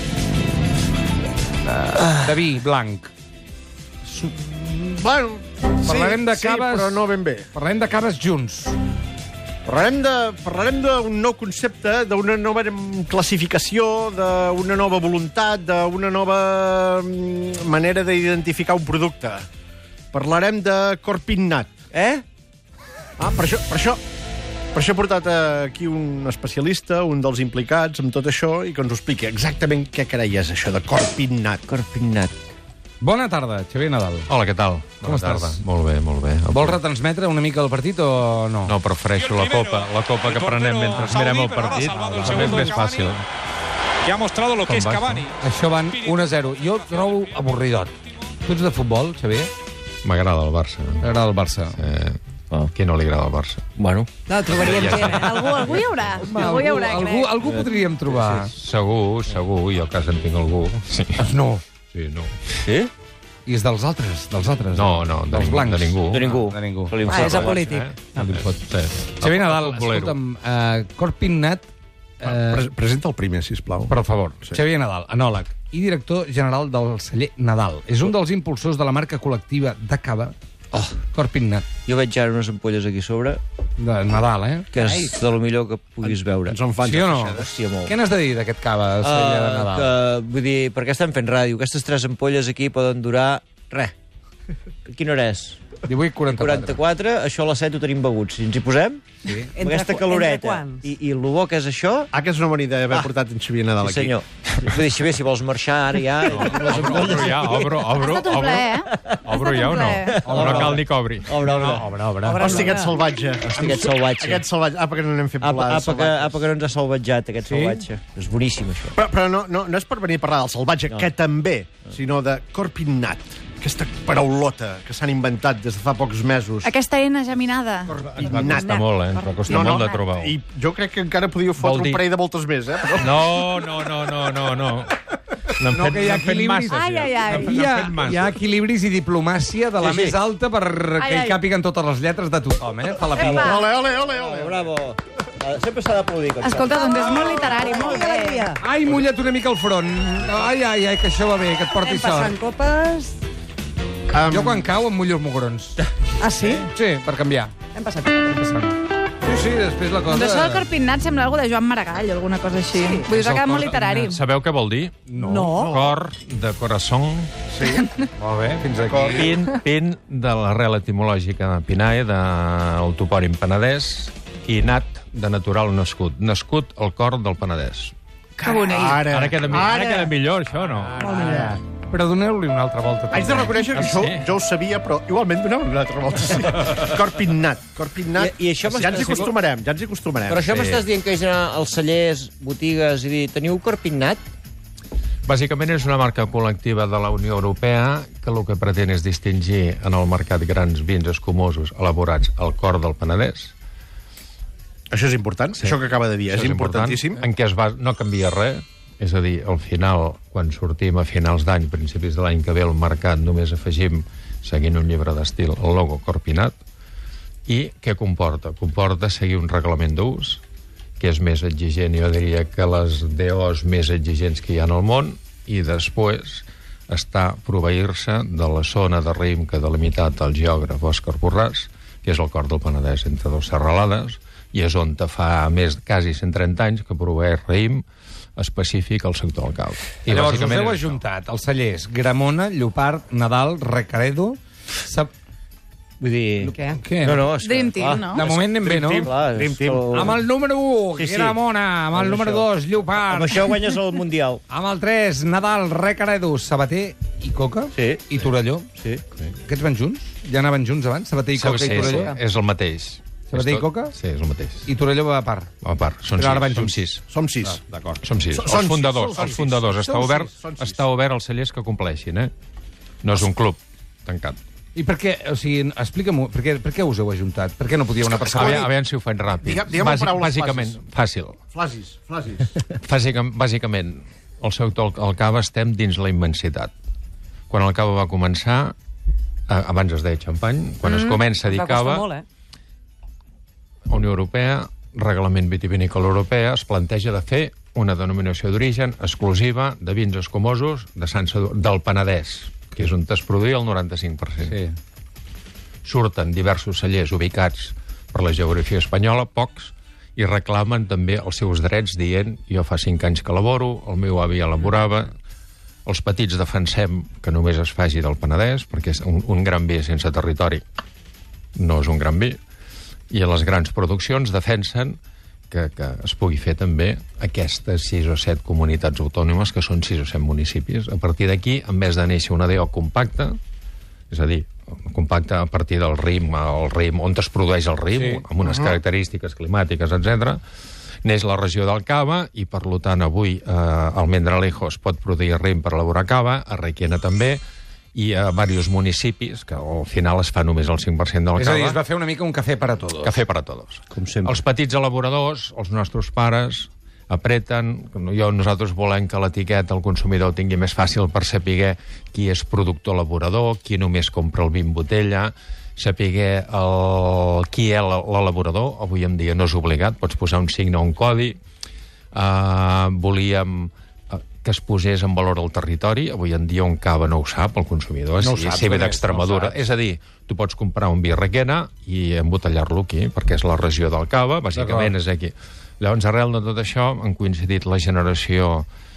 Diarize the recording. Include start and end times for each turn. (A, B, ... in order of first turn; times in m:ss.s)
0:01.6-0:03.1 A
0:04.1-0:07.5 B
0:05.8-0:08.8 A
0:09.7-0:19.4 B
0:20.1-0:21.7 B
0:21.9-0:22.2 C
0:23.2-0:24.0 B
0:24.7-0:31.6 B
0:31.7-0:32.4 C
0:33.0-0:34.3 A
0:34.3-0:36.8 D
0:35.0-0:35.6 A
0:36.5-0:38.8 A
0:38.7-0:43.3 D
0:39.3-0:43.1 E
0:42.2-0:42.8 A
0:44.0-0:45.3 E
0:44.6-0:45.3 D
0:45.4-0:49.5 A
0:50.0-0:51.1 D
0:51.0-0:51.8 A
0:51.8-0:53.9 D
0:53.8-0:55.2 C
0:54.3-0:55.6 F
0:54.4-0:56.0 D
0:55.2-0:57.4 G
0:56.2-0:58.5 A
0:57.4-0:58.3 C
0:58.3-1:01.3 D
1:01.2-1:01.6 A
1:01.9-1:02.5 D
1:02.6-1:02.9 C
1:03.5-1:07.0 A
1:04.8-1:06.4 D
1:06.1-1:07.8 C
1:07.1-1:07.9 F
1:07.1-1:10.2 D
1:08.2-1:08.6 A
1:09.2-1:11.7 A
1:12.2-1:12.7 A
1:12.2-1:14.6 B
1:13.9-1:21.7 A
1:21.9-1:23.4 C
1:23.8-1:25.1 A
1:24.7-1:26.6 C
1:26.0-1:27.6 B
1:26.8-1:29.9 A
1:27.4-1:27.9 C
1:29.0-1:33.9 C
1:34.9-1:35.6 C
1:35.9-1:36.8 A
1:36.3-1:39.0 C
1:39.2-1:39.6 A
1:39.6-1:40.9 F
1:39.6-1:42.1 C
1:42.1-1:44.2 B
1:43.8-1:47.8 C
1:46.3-1:48.7 D
1:48.0-1:50.1 G
1:48.9-1:49.2 C
1:49.2-1:51.3 D
1:50.1-1:52.5 C
1:50.2-1:50.8 A
1:51.5-1:52.8 A
1:52.2-1:53.2 F
1:52.3-1:56.5 B
1:53.4-1:54.4 C
1:55.4-1:59.0 C
1:57.5-1:57.8 A
1:58.9-2:06.8 B
2:06.6-2:10.0 G
2:08.0-2:08.8 B
2:08.0-2:10.4 D
2:09.5-2:13.3 B
2:11.6-2:12.1 D
2:13.0-2:14.9 D
2:15.6-2:18.3 D
2:15.7-2:23.6 A
2:16.7-2:17.7 G
2:19.8-2:20.2 C
2:21.0-2:21.4 G
2:23.2-2:27.8 C
2:23.2-2:23.6 G
2:23.2-2:24.7 B
2:26.4-2:28.5 G
2:27.9-2:28.6 F
2:28.6-2:32.4 A
2:31.8-2:33.2 F
2:34.1-2:34.7 B
2:34.3-2:35.8 A
2:36.2-2:36.7 F
2:36.5-2:37.6 A
2:37.7-2:38.7 F
2:39.2-2:40.7 A
2:40.1-2:44.2 G
2:42.7-2:43.1 F
2:43.1-2:47.4 D
2:43.2-2:44.1 A
2:45.1-2:45.6 A
2:45.2-2:45.8 F
2:47.5-2:47.9 B
2:48.2-2:49.4 A
2:48.9-2:49.3 B
2:49.1-3:01.0 D
2:58.5-2:58.9 G
2:58.5-3:00.1 B
3:01.0-3:03.6 A
3:01.0-3:01.5 F
3:01.0-3:01.6 B
3:03.1-3:10.5 B
3:03.7-3:04.2 D
3:08.2-3:09.4 C
3:10.3-3:14.2 C
3:10.5-3:10.8 D
3:15.3-3:23.5 D
3:24.9-3:27.2 B
3:26.3-3:36.6 D
3:37.5-3:40.4 D
3:41.0-3:57.8 D
3:58.4-4:01.0 D
4:00.1-4:05.1 A
4:06.0-4:10.2 C
4:06.5-4:07.2 A
4:07.3-4:08.3 G
4:08.1-4:09.1 A
4:08.7-4:10.2 B
4:09.9-4:13.6 A
4:11.0-4:11.4 C
4:11.9-4:12.5 C
4:13.0-4:14.4 C
4:14.5-4:18.7 A
4:17.7-4:18.0 C
4:18.8-4:19.0 C
4:19.5-4:22.2 A
4:21.4-4:24.7 D
4:23.3-4:24.0 A
4:24.7-4:25.5 A
4:25.6-4:27.0 D
4:26.1-4:26.9 A
4:27.1-4:30.8 B
4:28.0-4:32.3 D
4:33.0-4:34.4 D
4:34.8-4:38.7 A
4:38.2-4:38.7 B
4:38.3-4:41.4 D
4:39.4-4:40.8 B
4:41.5-4:42.5 B
4:42.7-4:46.7 D
4:47.5-4:48.8 D
4:49.5-4:52.1 D
4:50.8-4:52.2 F
4:53.9-5:04.6 D
5:04.5-5:04.8 A
5:05.8-5:15.1 D
5:15.9-5:20.6 D
5:21.6-5:22.4 D
5:23.1-5:25.0 D
5:25.5-5:33.4 D
5:34.1-5:40.4 D
5:37.9-5:38.2 A
5:41.0-5:47.4 D
5:48.0-5:51.8 D
5:51.4-5:53.2 A
5:53.0-6:11.4 D
5:53.9-5:54.4 C
6:12.1-6:28.7 D
6:18.2-6:19.6 A
6:24.5-6:24.9 A